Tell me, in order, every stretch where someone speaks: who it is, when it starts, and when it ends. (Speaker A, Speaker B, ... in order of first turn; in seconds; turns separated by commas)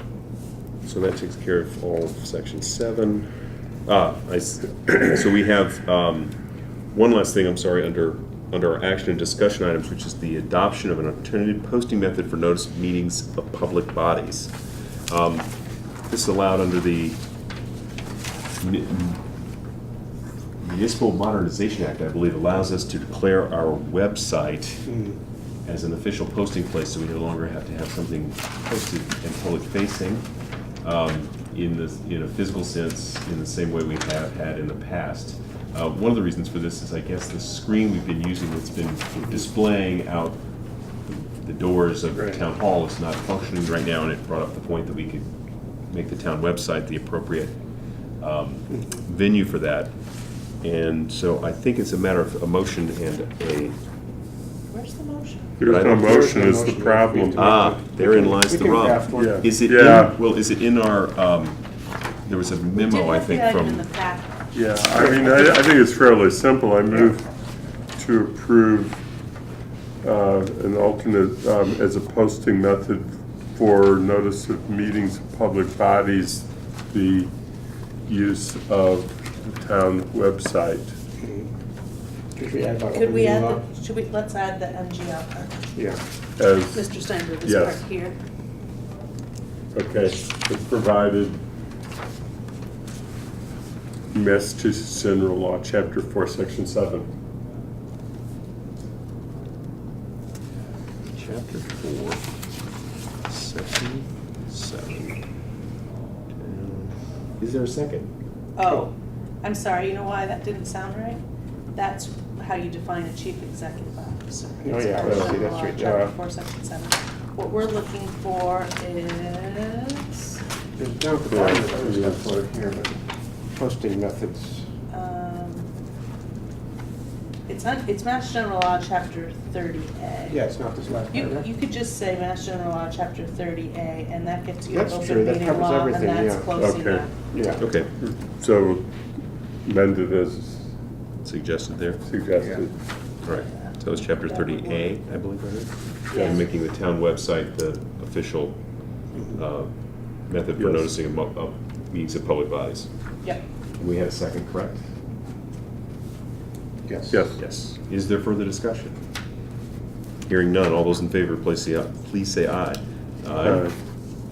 Speaker A: 0.8-3.3, Speaker A: 3.9-6.4, Speaker A: 6.9-14.5, Speaker A: 15.1-15.5, Speaker A: 16.1-17.2, Speaker A: 18.5-19.2, Speaker A: 20.6-24.9, Speaker B: 24.9-25.1, Speaker A: 25.6-30.3, Speaker A: 30.8-40.4, Speaker A: 41.1-45.3, Speaker A: 45.9-47.6, Speaker A: 48.2-49.9, Speaker A: 50.6-53.8, Speaker C: 54.7-55.6, Speaker D: 55.6-57.5, Speaker A: 55.7-56.1, Speaker B: 55.7-59.5, Speaker A: 57.4-61.6, Speaker D: 59.1-60.2, Speaker A: 62.3-63.8, Speaker C: 62.8-64.5, Speaker D: 64.5-67.3, Speaker D: 68.0-69.0, Speaker D: 70.0-77.3, Speaker D: 78.1-80.9, Speaker B: 81.2-81.5, Speaker B: 82.4-83.7, Speaker C: 82.9-85.8, Speaker B: 85.8-86.0, Speaker D: 86.4-86.9, Speaker C: 86.7-88.2, Speaker D: 87.4-87.8, Speaker D: 89.7-91.4, Speaker D: 94.1-97.1, Speaker A: 101.1-102.2, Speaker A: 103.3-105.2, Speaker A: 106.3-108.1, Speaker C: 108.6-111.2, Speaker B: 108.6-108.9, Speaker C: 111.7-120.4, Speaker B: 114.6-116.1, Speaker D: 115.0-115.5, Speaker B: 120.8-123.0, Speaker D: 121.3-122.3, Speaker B: 123.5-124.7, Speaker C: 124.9-125.7, Speaker C: 127.5-130.4, Speaker B: 130.3-131.5, Speaker C: 131.1-137.1, Speaker B: 134.7-136.5, Speaker D: 136.6-137.1, Speaker B: 137.3-137.6, Speaker A: 137.6-137.9, Speaker D: 138.0-138.9, Speaker D: 139.7-140.7, Speaker A: 141.2-142.0, Speaker D: 142.1-142.8, Speaker B: 142.4-142.6, Speaker A: 143.2-148.6, Speaker C: 143.3-145.0, Speaker C: 146.1-146.4, Speaker A: 149.3-149.7, Speaker A: 150.3-152.9, Speaker D: 150.6-150.9, Speaker A: 153.8-154.8, Speaker B: 156.9-157.2, Speaker D: 157.1-157.4, Speaker A: 157.3-159.0, Speaker A: 160.3-163.7, Speaker D: 163.4-163.7